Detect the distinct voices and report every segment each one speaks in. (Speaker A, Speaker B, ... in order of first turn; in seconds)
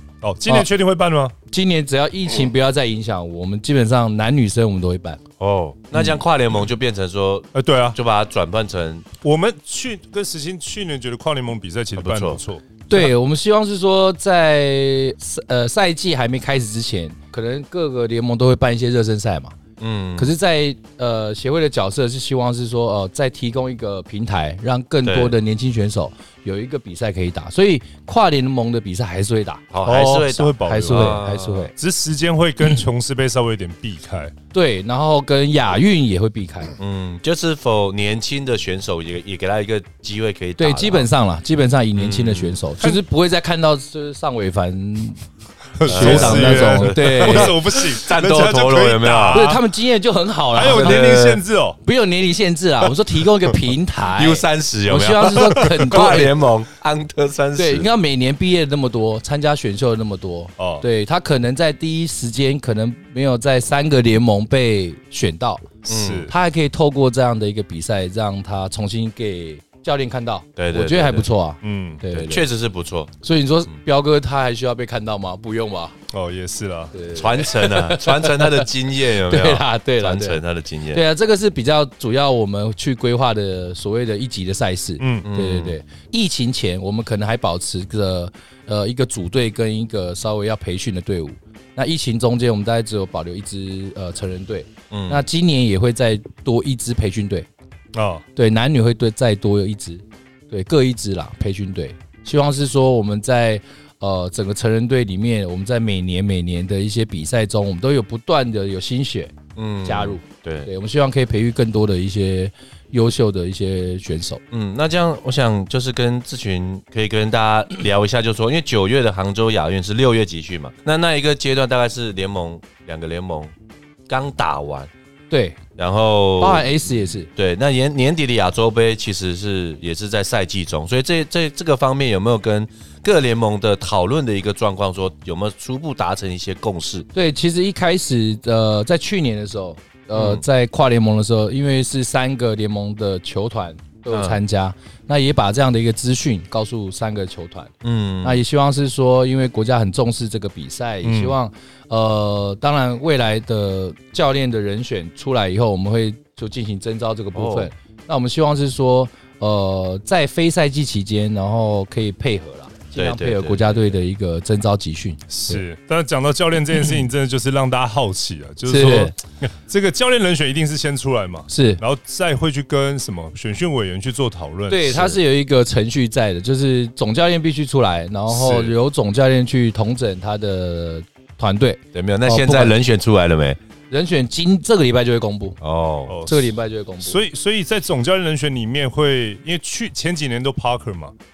Speaker A: 0.2-1.3, 7.5-8.0, 9.2-13.1, 29.8-31.2, 31.8-34.3, 45.8-49.6, 50.5-51.8, 60.6-60.8, 65.9-66.3, 71.6-72.0, 76.1-76.9, 85.0-85.3, 97.9-98.2, 151.0-151.4, 165.3-175.1, 178.3-178.7, 186.1-191.1
Speaker B: 1.5-5.2, 12.9-19.5, 20.2-31.7, 34.5-36.7, 40.6-45.2, 45.8-47.6, 49.3-51.1, 51.8-56.4, 57.5-65.7, 66.3-72.5, 73.2-76.0, 76.9-78.7, 79.2-80.4, 80.9-97.5, 98.3-114.4, 125.3-125.6, 126.4-127.3, 137.1-165.6, 168.7-169.1, 171.5-171.8, 174.7-182.8, 183.9-185.6, 186.2-187.2
Speaker C: 5.4-9.1, 11.9-12.4, 19.8-20.3, 25.0-25.4, 29.7-31.7, 36.8-41.1, 41.9-42.6, 45.8-49.5, 50.6-51.4, 54.1-57.9, 65.8-66.3, 70.6-71.3, 72.1-73.1, 77.1-81.0, 85.2-85.8, 94.9-95.2, 109.5-110.7, 114.5-123.5, 124.1-124.9, 125.8-137.1, 140.1-140.4, 144.1-144.4, 147.8-148.4, 157.3-157.7, 162.9-163.9, 181.9-183.6, 185.6-186.2